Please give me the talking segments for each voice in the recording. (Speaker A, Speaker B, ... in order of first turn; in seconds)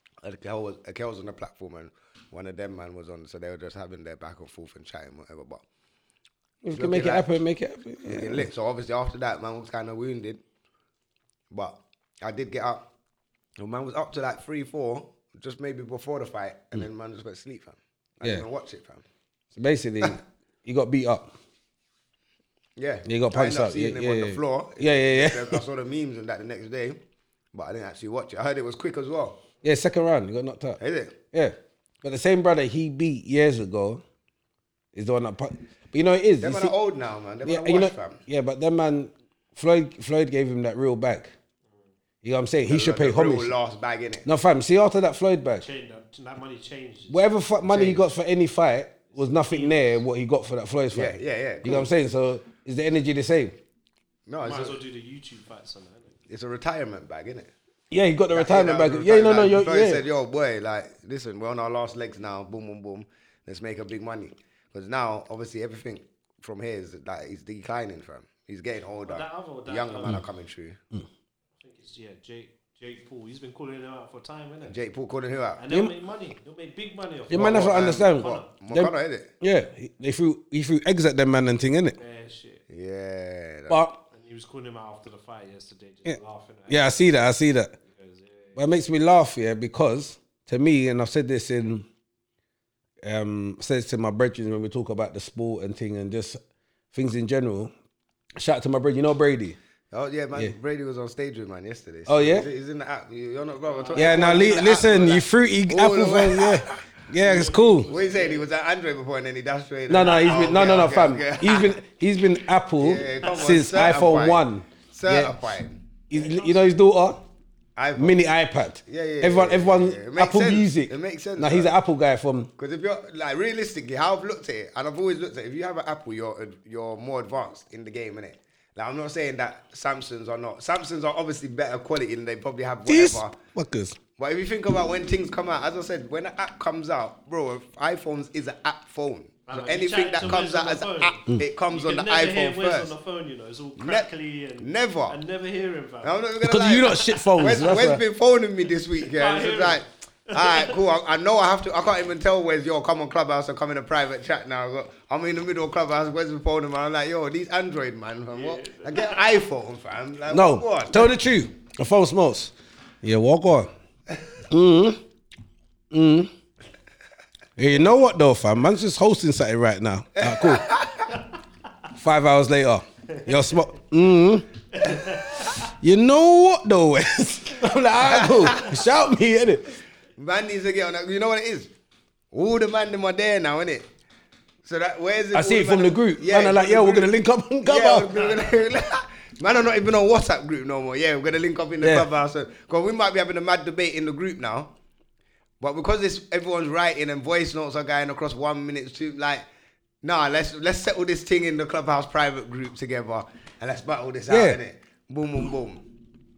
Speaker A: 0.2-5.6, 6.7-7.3, 8.0-10.4, 11.5-12.9, 13.6-19.0, 22.8-27.0, 27.5-29.4, 30.8-31.1, 36.4-38.2, 42.7-44.3, 47.6-48.0, 50.9-51.9, 54.3-54.8, 56.3-57.5, 58.3-70.8, 74.7-75.6, 77.3-79.3, 82.7-83.9, 99.9-106.8, 107.9-111.7, 112.8-115.8, 117.8-118.2, 118.8-121.7, 122.6-133.3, 134.2-142.9, 143.8-145.2, 146.0-161.1, 170.2-171.1, 178.1-178.7, 180.2-181.7, 182.3-183.9, 184.6-194.7, 195.6-199.4, 200.0-205.8
Speaker B: 6.6-8.5, 19.6-21.3, 23.1-25.6, 29.6-30.8, 31.3-34.0, 34.9-36.7, 37.4-41.3, 42.2-43.5, 44.2-45.6, 47.1-53.5, 57.9-60.0, 77.3-82.0, 83.7-84.0, 86.0-87.7, 88.5-91.8, 93.0-96.4, 96.9-97.7, 98.4-99.6, 102.1-102.5, 103.9-107.9, 109.9-115.4, 116.1-117.2, 118.0-122.5, 132.9-134.0, 146.4-148.0, 160.3-163.7, 164.5-165.0, 165.9-166.3, 167.6-170.7, 171.9-174.5, 175.5-179.8, 185.3-188.2, 191.8-192.1, 204.3-204.6
Speaker C: 45.6-47.2, 49.1-50.0, 54.4-56.2, 69.0-70.2, 71.6-74.7, 75.6-78.5, 82.0-82.6, 84.1-87.0, 87.8-88.6, 103.6-105.0, 107.2-108.5, 116.1-116.7, 139.5-146.2, 146.8-147.8, 149.0-150.8, 158.3-159.4, 174.8-175.5